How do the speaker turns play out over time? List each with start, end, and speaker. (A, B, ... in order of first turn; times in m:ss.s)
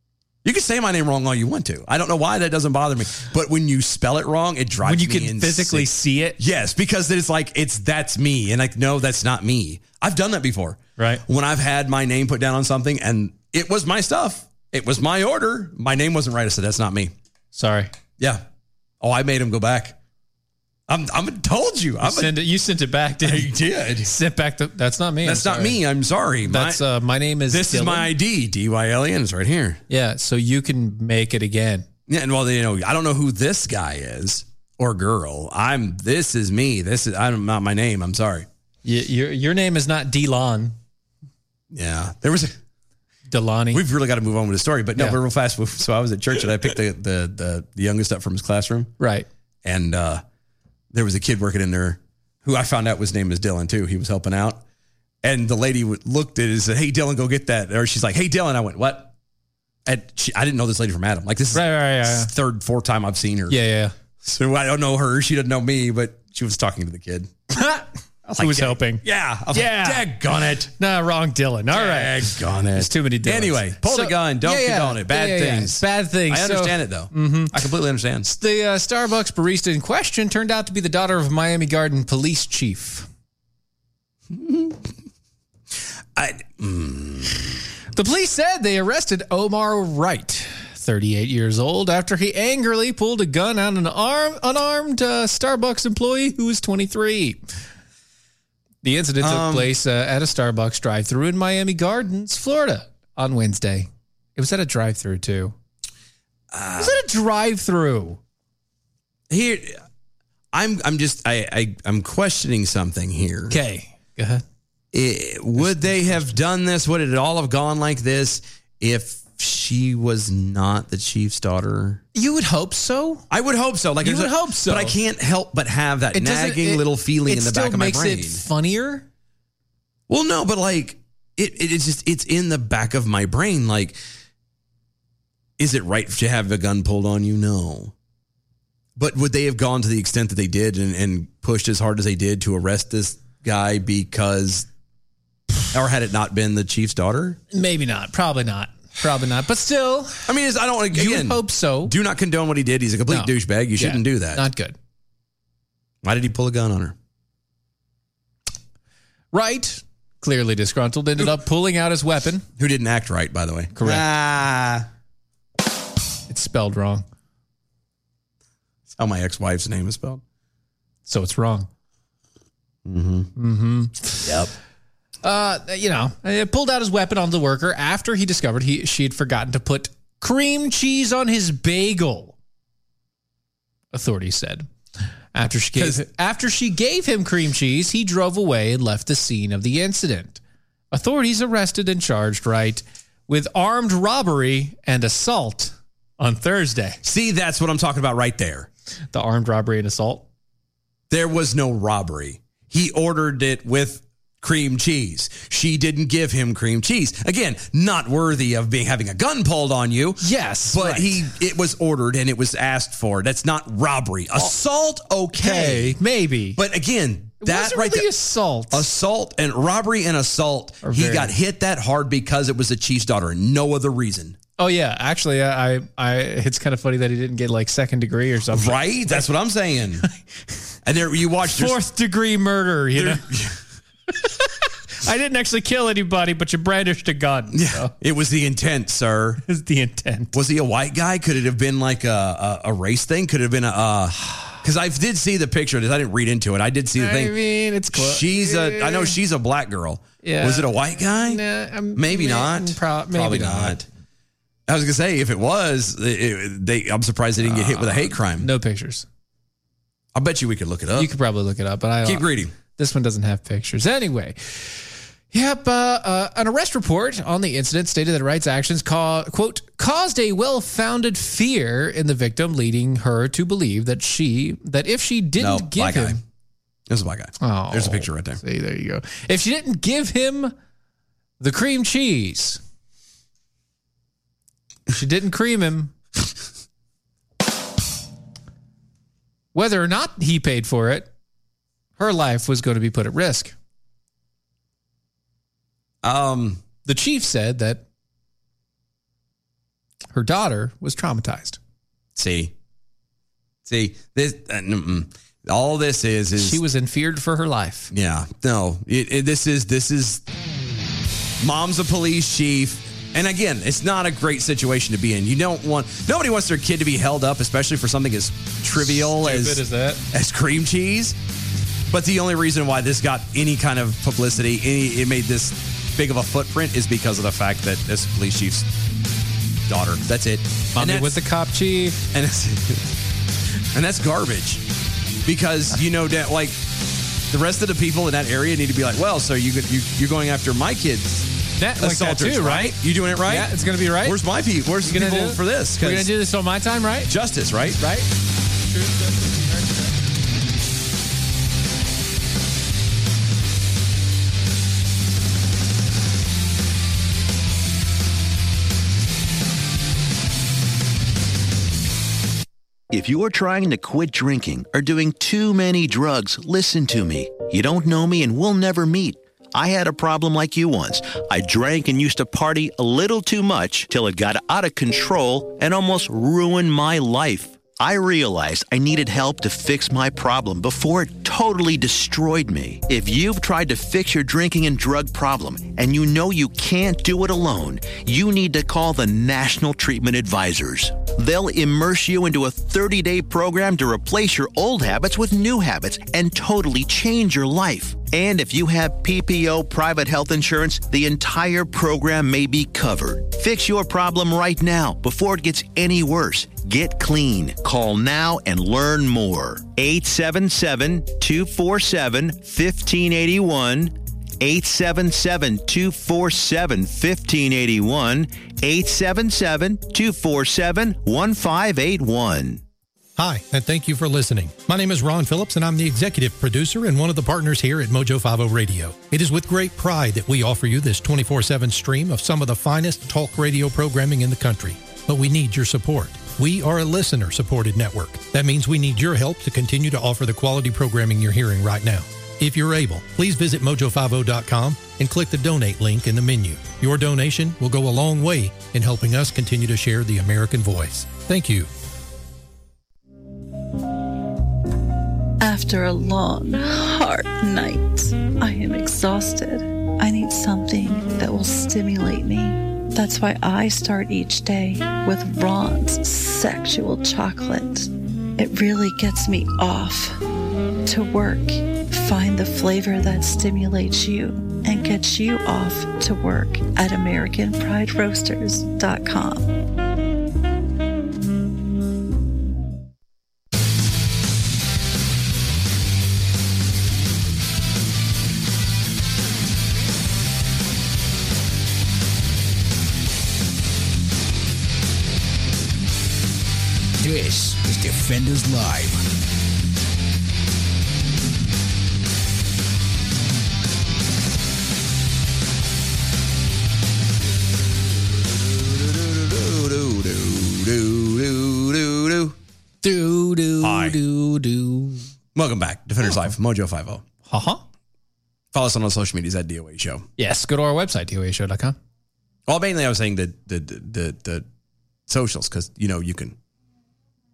0:00.4-0:17.1 A
0:04.8-0:06.4 B
0:11.0-0:11.2 B
0:17.5-0:17.9 B
0:18.2-0:18.4 A
0:19.0-0:20.0 A
0:20.9-0:22.3 A
0:22.0-0:25.8 B
0:23.2-0:24.1 A
0:25.2-0:26.8 A
0:26.4-0:28.1 B
0:27.5-0:29.8 A
0:29.9-0:31.8 B
0:32.1-0:38.5 A
0:38.8-0:40.7 B
0:41.7-0:42.5 A
0:43.3-0:43.8 B
0:43.7-0:48.9 A
0:49.0-0:49.3 B
0:49.6-0:50.2 A
0:50.9-0:54.6 A
0:55.2-0:59.1 A
0:59.8-1:03.6 A
1:01.5-1:02.3 B
1:03.5-1:03.9 B
1:04.2-1:07.3 A
1:07.5-1:10.1 B
1:08.2-1:10.7 A
1:10.7-1:17.5 B
1:11.7-1:18.3 A
1:18.3-1:23.1 B
1:24.3-1:24.9 A
1:26.1-1:27.6 A
1:27.9-1:37.4 B
1:38.8-1:45.5 B
1:39.2-1:39.7 A
1:46.5-1:47.0 A
1:46.8-1:48.2 B
1:49.3-1:49.8 A
1:50.5-1:53.6 A
1:53.5-1:54.4 B
1:54.9-2:02.0 A
1:55.6-1:56.3 B
2:02.1-2:03.2 B
2:03.3-2:08.4 A
2:04.0-2:05.0 B
2:06.1-2:09.0 B
2:10.1-2:14.0 A
2:15.6-2:17.9 A
2:19.0-2:24.7 A
2:25.7-2:27.4 A
2:27.5-2:30.2 B
2:30.3-2:34.4 A
2:30.9-2:31.9 B
2:33.1-2:34.8 B
2:36.0-2:36.9 A
2:39.3-2:42.4 B
2:42.6-2:44.8 A
2:43.7-2:44.0 B
2:46.3-2:47.0 B
2:48.9-2:50.2 A
2:51.1-2:51.7 B
2:52.8-2:53.3 A
2:53.4-2:54.3 B
2:54.2-2:54.5 A
2:55.2-3:02.4 B
3:03.9-3:04.7 B
3:05.3-3:10.4 B
3:05.8-3:06.0 A
3:10.9-3:17.0 B
3:17.0-3:18.7 A
3:19.1-3:20.2 B
3:21.1-3:36.0 A
3:30.2-3:31.3 B
3:35.4-3:36.6 B
3:36.5-3:38.1 A
3:37.4-3:38.8 B
3:38.7-3:44.4 A
3:40.8-3:41.3 B
3:44.6-3:49.2 B
3:48.5-3:50.0 A
3:50.8-3:51.8 A
3:51.5-3:53.2 B
3:52.9-3:53.6 A
3:54.2-3:54.5 B
3:55.0-3:57.9 B
3:57.5-3:59.4 A
3:59.4-4:00.3 B
4:00.3-4:07.4 A
4:07.0-4:09.2 B
4:07.9-4:11.4 A
4:10.2-4:13.8 B
4:11.9-4:13.8 A
4:14.7-4:18.5 A
4:17.4-4:19.0 B
4:20.1-4:21.1 A
4:21.0-4:36.2 B
4:22.0-4:22.5 A
4:35.4-4:36.2 A
4:36.9-4:38.4 A
4:37.4-4:40.5 B
4:41.4-4:42.6 B
4:44.9-4:45.9 B
4:49.5-4:51.1 B
4:52.0-4:53.5 B
4:56.0-4:56.6 A
4:56.8-4:57.8 B
5:00.1-5:01.6 B
5:02.1-5:02.5 A
5:03.6-5:06.6 A
5:06.4-5:07.9 B
5:07.9-5:10.2 A
5:11.4-5:21.2 A
5:18.8-5:20.0 B
5:21.9-5:28.7 A
5:29.7-5:31.2 A
5:30.7-5:32.0 B
5:32.1-5:32.8 A
5:33.7-5:34.6 A
5:35.2-5:36.6 A
5:37.3-5:46.1 A
5:41.6-5:44.2 B
5:44.8-5:47.1 B
5:47.1-5:47.8 A
5:47.8-5:48.1 B
5:48.7-5:49.6 B
6:02.9-7:02.6 C
7:03.2-7:31.7 D
7:35.4-7:50.2 E
7:50.8-7:59.6 E
8:17.0-8:19.0 F
8:28.9-8:32.4 A
8:32.8-8:35.0 B
8:33.6-8:34.0 A
8:35.3-8:37.0 A
8:36.0-8:36.3 B
8:37.2-8:37.6 B
8:38.5-8:40.0 A
8:40.2-8:41.8 B
8:42.5-8:44.4 A
8:45.1-8:46.4 A